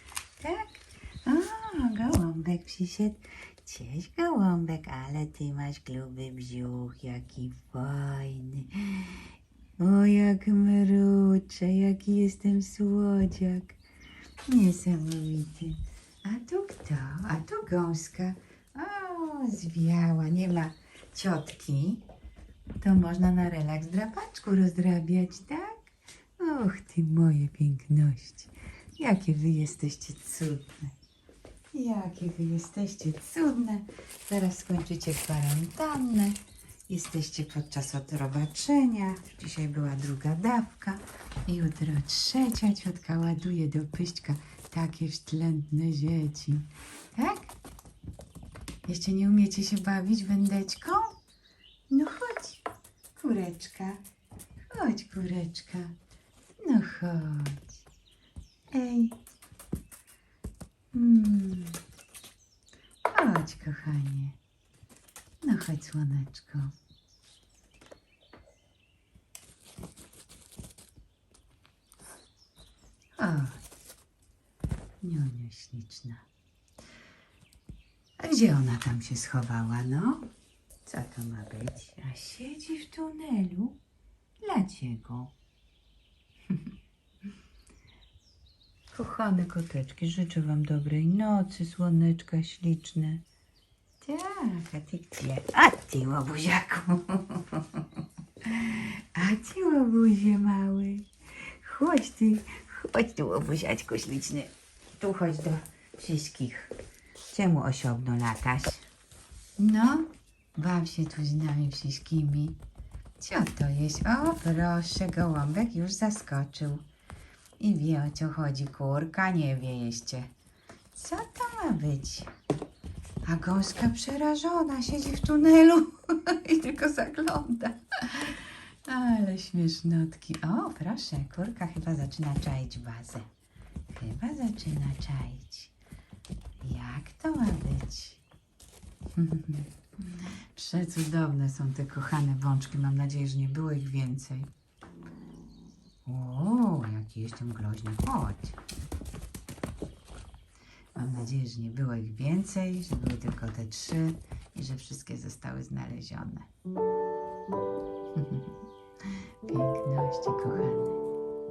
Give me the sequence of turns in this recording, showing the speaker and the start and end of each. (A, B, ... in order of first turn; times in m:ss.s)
0:00.4-0:13.8 A
0:14.5-0:22.0 A
0:22.8-0:30.9 A
0:31.7-0:47.5 A
0:48.8-0:51.2 A
0:51.9-0:52.6 A
0:53.1-0:54.0 A
0:54.7-0:56.0 A
0:56.6-0:57.7 A
0:58.7-0:59.1 A
1:00.9-1:01.8 A
1:03.1-1:04.4 A
1:05.4-1:06.7 A
1:13.2-1:13.6 A
1:15.0-1:16.2 A
1:18.2-1:20.3 A
1:20.8-1:23.8 A
1:24.4-1:25.3 A
1:28.9-1:33.2 A
1:34.0-1:37.8 A
1:38.4-1:46.7 A
1:47.3-1:48.8 A
1:49.6-1:52.6 A
1:53.2-1:56.8 A
1:57.6-2:00.3 A
2:00.9-2:02.3 A
2:03.2-2:13.3 A
2:13.9-2:15.7 A
2:16.6-2:18.2 A
2:19.2-2:24.5 A
2:26.0-2:28.6 A
2:30.9-2:36.5 A
2:38.2-2:38.5 A
2:39.1-2:41.0 A